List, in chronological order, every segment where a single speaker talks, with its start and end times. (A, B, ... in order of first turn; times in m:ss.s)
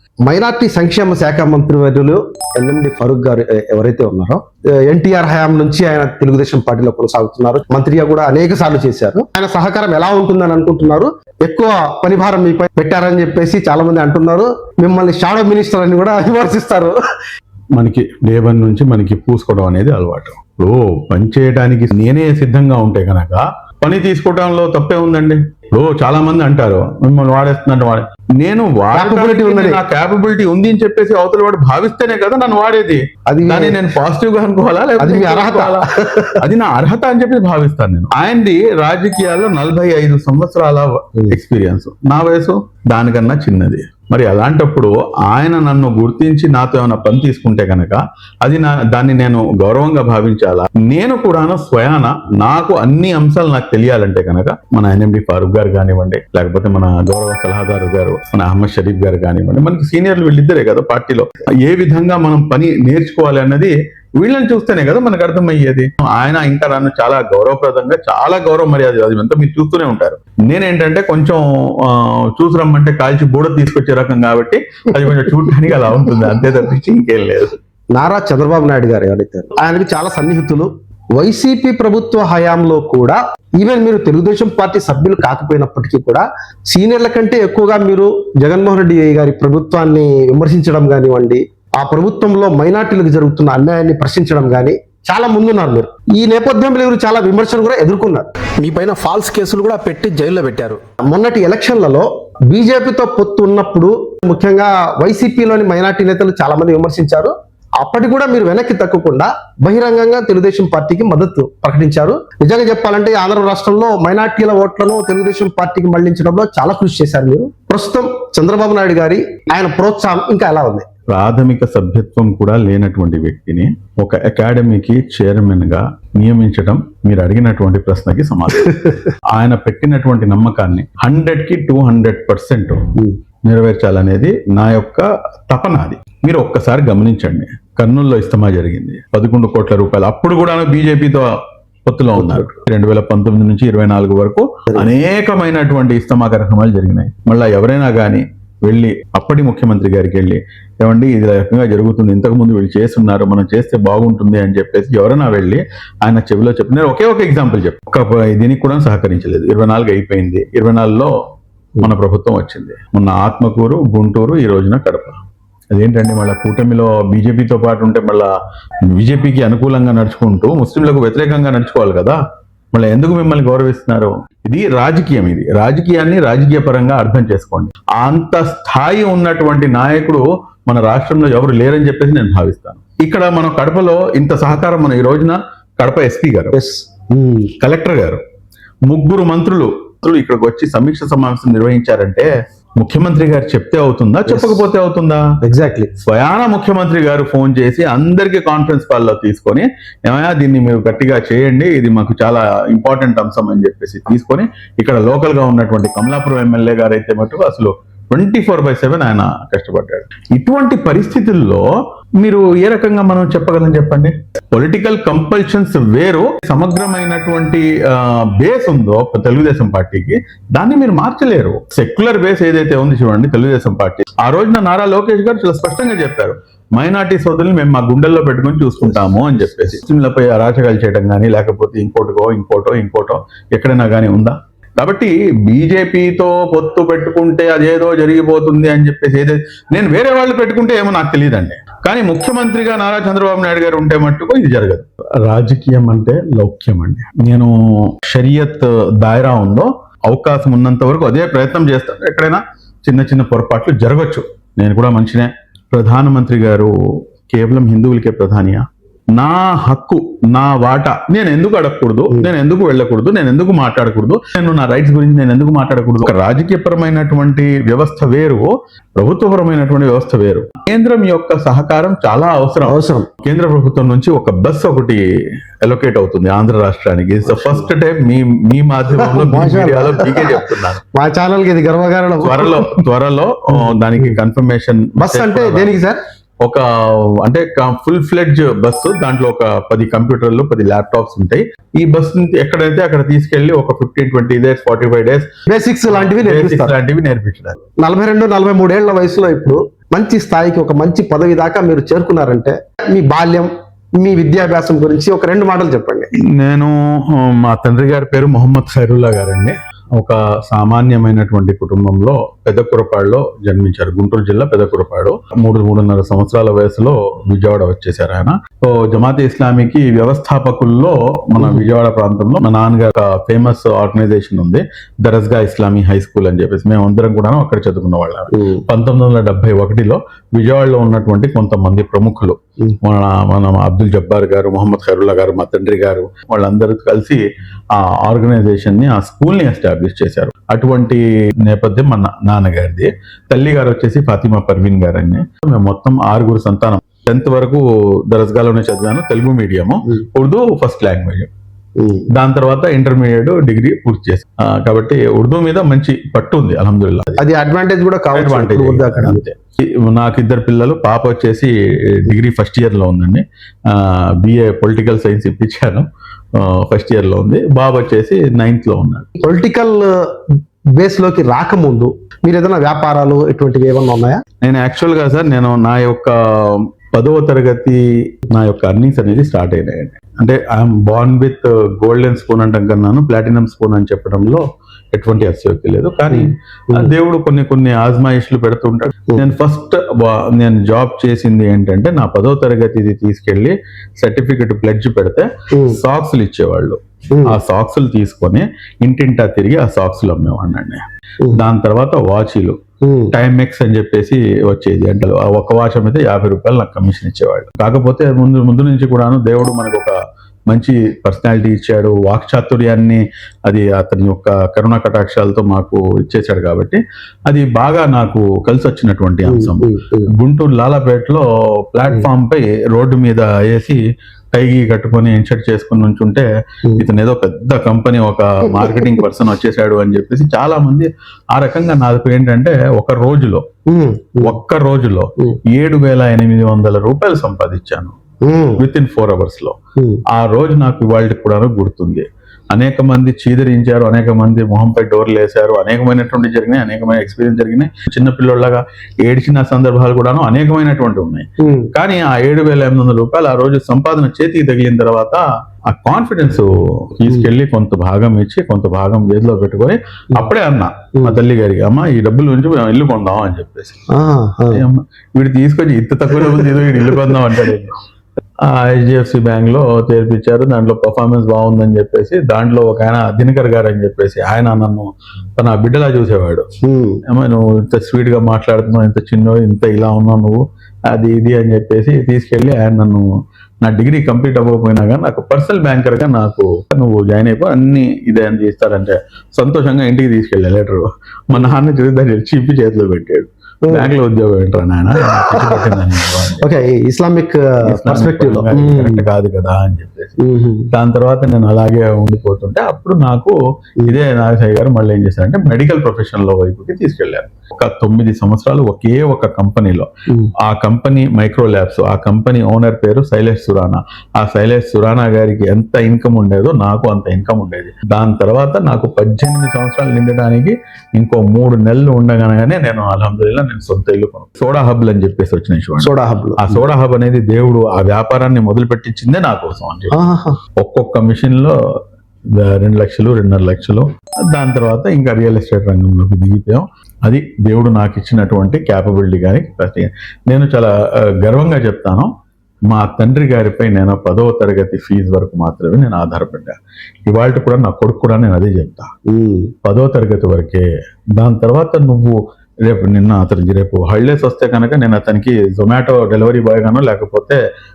0:00.3-0:17.0 A
0:17.8-1:17.6 B
0:28.9-0:29.8 A
0:33.3-0:33.8 A
0:35.0-0:36.5 A
1:17.9-1:39.0 A
1:38.6-1:40.8 C
1:40.3-1:40.6 A
1:41.1-2:00.9 A
2:01.1-2:13.0 B
2:13.5-2:41.1 B
2:22.2-2:22.5 A
2:41.8-2:45.2 B
2:45.7-2:48.3 B
2:48.9-2:52.2 B
2:52.7-3:06.6 B
3:06.5-3:07.5 A
3:07.6-3:08.2 B
3:08.9-3:15.3 B
3:14.3-3:14.6 A
3:15.4-3:15.9 A
3:16.0-4:16.7 B
3:48.9-3:49.3 A
4:17.3-4:18.6 B
4:19.2-4:35.0 B
4:32.7-4:33.1 A
4:35.6-4:40.8 B
4:37.3-4:37.7 A
4:38.9-4:42.8 A
4:42.2-4:45.7 B
4:43.5-4:44.2 A
4:45.0-4:46.0 A
4:46.4-4:55.3 B
4:55.5-4:56.8 A
4:55.9-4:57.6 B
4:57.8-5:06.1 A
5:06.2-5:37.2 B
5:21.4-5:21.7 A
5:28.3-5:28.6 A
5:37.7-5:51.3 B
5:51.8-5:52.1 A
5:52.1-5:57.3 B
5:57.2-5:59.2 A
5:58.1-6:09.1 B
6:09.2-6:14.2 A
6:14.4-6:42.6 B
6:26.1-6:26.9 A
6:35.5-6:35.8 A
6:37.1-6:37.4 A
6:42.8-6:43.1 A
6:43.1-6:49.9 B
6:50.5-7:03.8 B
6:59.3-7:00.1 A
7:04.3-7:06.2 B
7:06.8-7:13.4 B
7:08.4-7:09.0 A
7:13.7-7:14.4 A
7:14.2-7:18.0 B
7:18.2-7:18.6 A
7:18.6-7:19.6 B
7:19.8-7:20.0 A
7:20.1-7:43.8 B
7:31.4-7:31.7 A
7:43.9-7:44.6 A
7:44.5-7:47.8 B
7:48.4-7:56.5 B
7:56.6-7:57.0 A
7:57.1-8:03.0 B
8:03.6-8:16.5 B
8:15.0-8:15.7 A
8:16.4-8:19.1 A
8:17.6-8:20.2 B
8:20.2-8:20.7 A
8:20.7-8:50.0 B
8:45.8-8:46.6 A
8:49.9-8:50.4 A
8:50.6-8:51.5 B
8:52.3-9:02.1 B
9:02.7-9:08.9 B
9:09.1-9:09.5 A
9:09.6-9:10.6 B
9:11.2-9:17.4 B